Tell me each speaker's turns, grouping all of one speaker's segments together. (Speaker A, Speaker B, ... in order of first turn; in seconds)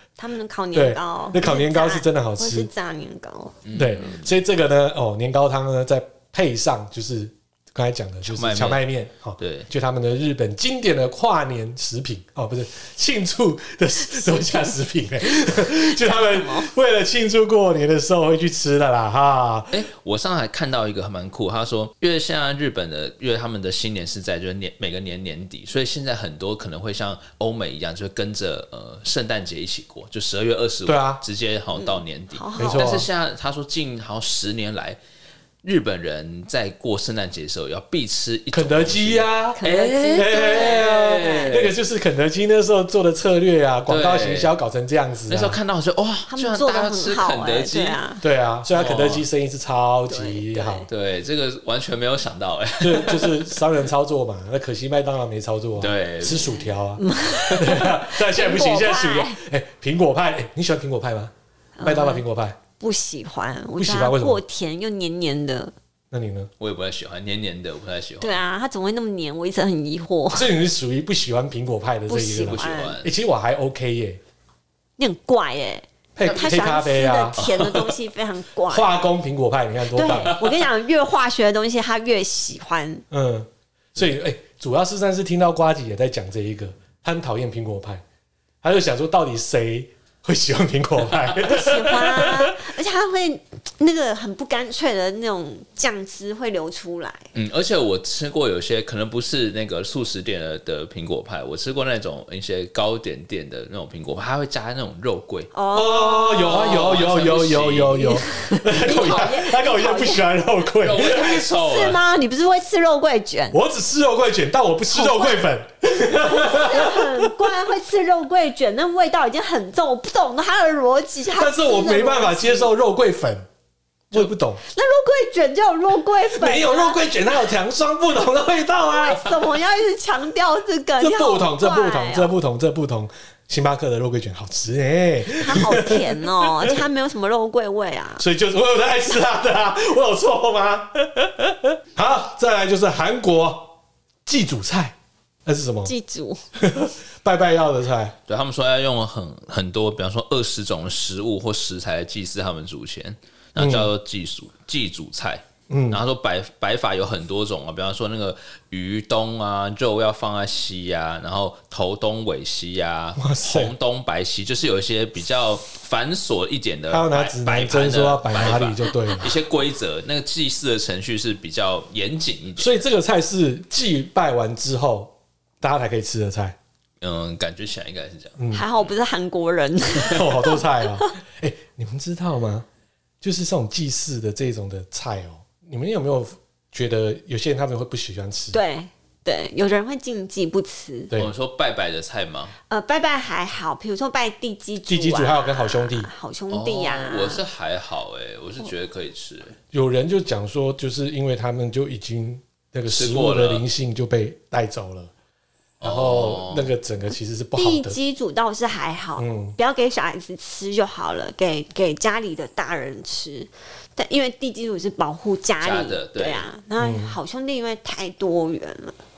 Speaker A: 0.2-3.6, 14.2-14.7, 15.5-16.7, 31.8-32.9, 39.5-41.5, 46.3-48.2, 50.1-50.9, 57.0-59.4, 61.8-62.2, 62.8-65.7, 68.2-70.5, 72.1-73.0, 75.0-78.9, 79.9-83.0, 91.4-97.2, 105.5-107.0, 108.0-110.3, 111.0-113.6, 114.9-115.4, 116.1-122.7, 124.7-127.0, 128.9-132.3, 135.3-138.2, 145.8-146.4, 178.5-181.1, 188.5-191.1, 192.7-197.4, 207.6-219.0
Speaker B: 0.7-2.7, 3.7-19.8, 30.9-31.2, 32.6-33.1, 38.5-39.6, 40.1-45.6, 48.2-50.8, 52.8-61.3, 61.8-62.6, 63.8-64.4, 66.1-66.5, 70.3-74.2, 76.2-77.4, 78.7-80.4, 83.1-88.0, 88.6-92.7, 105.7-111.4, 113.5-117.5, 121.3-123.4, 124.1-124.6, 126.3-129.3, 131.0-136.8, 138.2-145.9, 146.6-148.1, 153.6-153.9, 155.7-156.0, 163.2-163.7, 166.9-169.4, 172.6-176.6, 178.4-178.6, 180.0-182.7, 183.2-188.6, 194.9-196.1, 199.7-205.1, 205.8-208.0, 209.2-209.6, 216.8-217.2
Speaker C: 3.6-4.3, 8.2-8.8, 9.4-9.7, 19.7-35.0, 35.6-41.7, 43.9-44.5, 45.3-48.0, 48.7-49.2, 50.9-53.6, 55.8-56.6, 66.6-68.4, 72.3-73.1, 77.4-77.9, 80.1-80.6, 97.3-105.5, 106.4-108.2, 110.8-112.0, 148.3-172.8, 177.0-178.4, 191.1-192.5, 196.5-199.6, 202.9-203.6, 205.8-206.7, 215.6-216.4